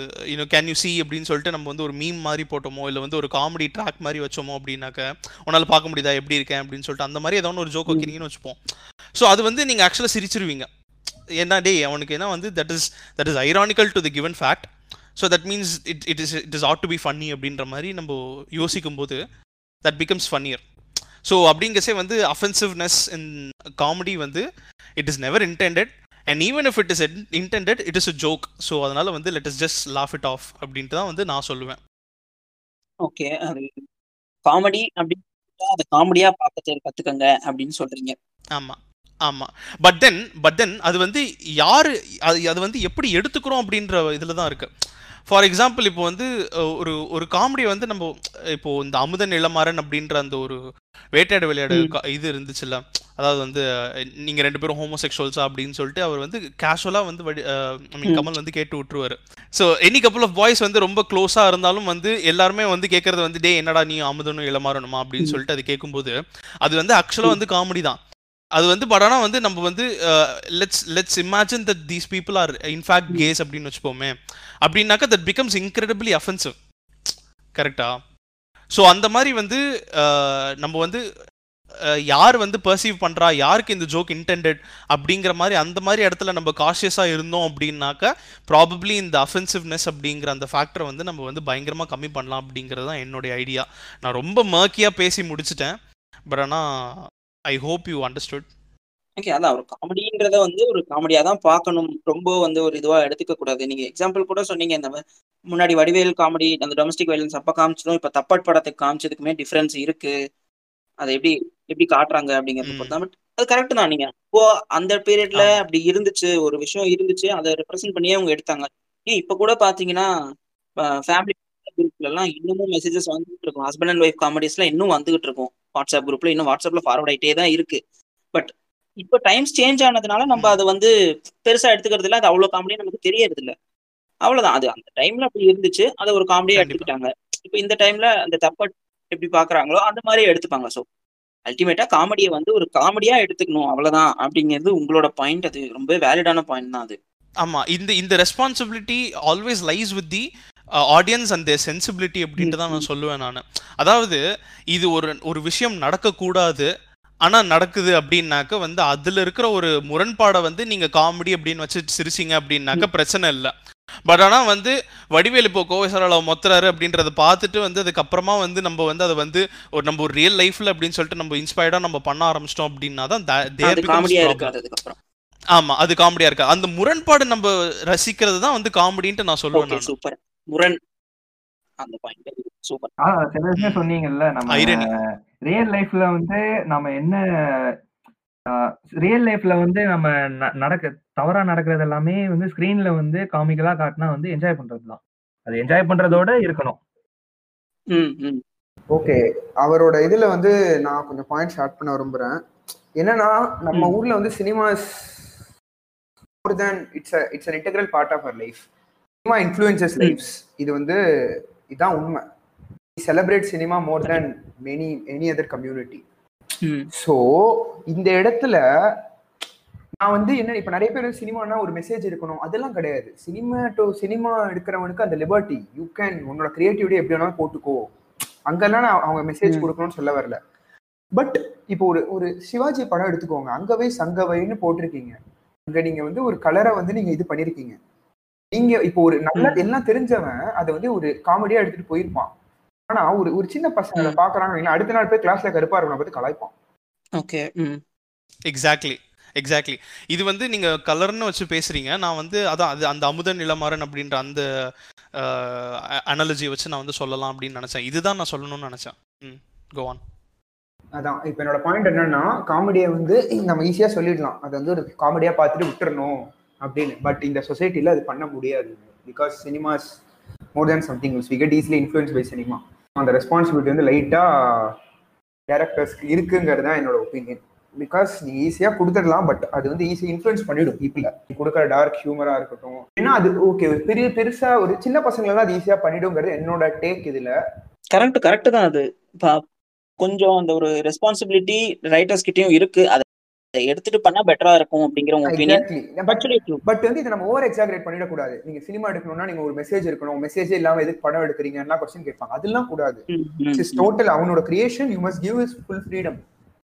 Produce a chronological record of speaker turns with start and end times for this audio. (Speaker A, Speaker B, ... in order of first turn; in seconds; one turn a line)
Speaker A: 0.3-8.6
Speaker A: 9.2-10.7
Speaker A: 11.4-19.2
Speaker A: 19.9-20.6
Speaker A: 21.2-24.4
Speaker A: 25.0-31.8
Speaker B: 33.0-33.8
Speaker B: 34.5-38.1
Speaker A: 38.5-44.7
Speaker A: 45.3-46.3
Speaker A: 46.8-50.6
Speaker A: 51.1-53.6
Speaker A: 54.3-68.0
Speaker A: 68.6-76.5
Speaker A: 77.6-77.9
Speaker A: 78.7-81.0
Speaker A: 82.1-95.8
Speaker A: 96.3-96.6
Speaker A: 97.5-98.5
Speaker B: 99.2-110.1
Speaker B: 111.0-120.1
Speaker A: 112.6-113.0
Speaker A: 115.3-115.6
Speaker B: 120.8-127.8
Speaker B: 128.3-130.9
Speaker B: 131.4-133.5
Speaker B: 134.2-140.8
Speaker A: 136.6-136.9
Speaker B: 141.5-147.0
Speaker A: 147.4-150.3
Speaker A: 150.9-154.2
Speaker B: 152.4-152.9
Speaker A: 154.7-156.7
Speaker A: 157.2-163.5
Speaker A: 164.1-174.5
Speaker B: 173.6-175.0
Speaker A: 175.6-179.9
Speaker B: 179.5-180.8
Speaker B: 181.8-182.9
Speaker C: 183.0-184.8
Speaker A: 183.6-183.8
Speaker A: 184.5-185.0
Speaker C: 185.5-187.2
Speaker C: 188.5-196.8
Speaker B: 197.9-198.4
Speaker D: 198.9-202.4
Speaker D: 203.0-205.3
Speaker D: 206.4-208.7
Speaker D: 209.2-211.0
Speaker D: 211.7-212.2
Speaker D: 213.0-216.0
Speaker B: 216.6-216.9
Speaker D: 216.9-218.6
Speaker D: 220.0-227.9
Speaker D: 228.5-230.4
Speaker D: 231.1-235.2
Speaker D: 235.7-237.8
Speaker D: 238.5-242.3
Speaker D: 242.9-246.5
Speaker B: 247.2-247.8
Speaker A: 248.5-254.4
Speaker A: 255.2-260.0
Speaker D: 261.0-270.0
Speaker D: 270.6-274.8
Speaker D: 275.5-287.3
Speaker B: 287.9-289.4
Speaker B: 290.0-293.0
Speaker B: 293.6-296.6
Speaker D: 295.3-306.2
Speaker B: 303.1-303.9